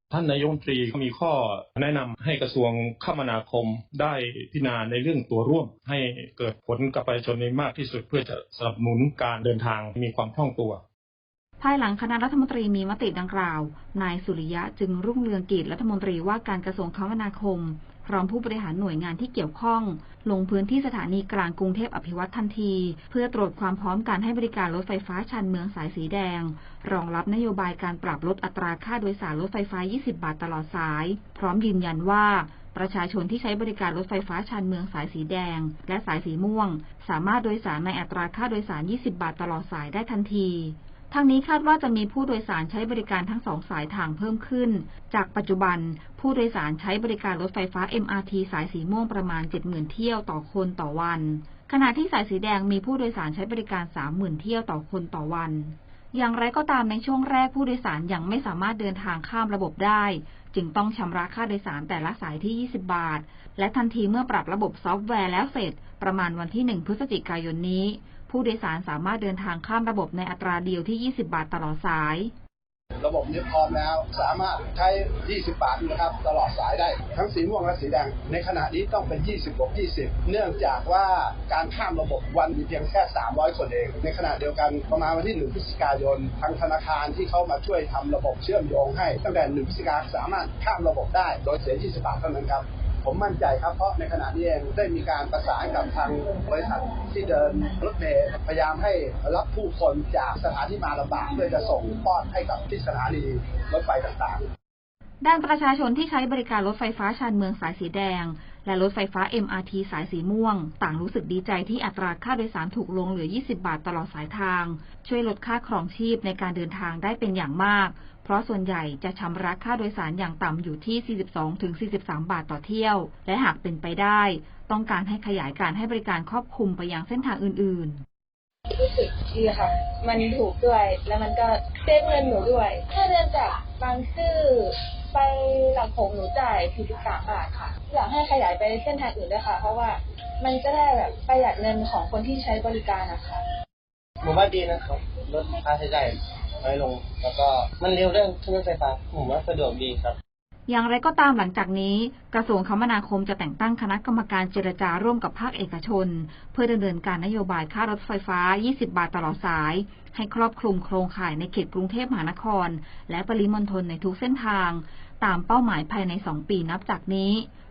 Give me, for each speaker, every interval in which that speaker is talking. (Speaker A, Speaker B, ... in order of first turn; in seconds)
Speaker A: 0.1-10.8
Speaker B: 11.6-72.3, 105.2-128.0, 150.7-167.5
Speaker C: 73.0-104.4
Speaker D: 128.7-143.4
Speaker E: 144.2-150.2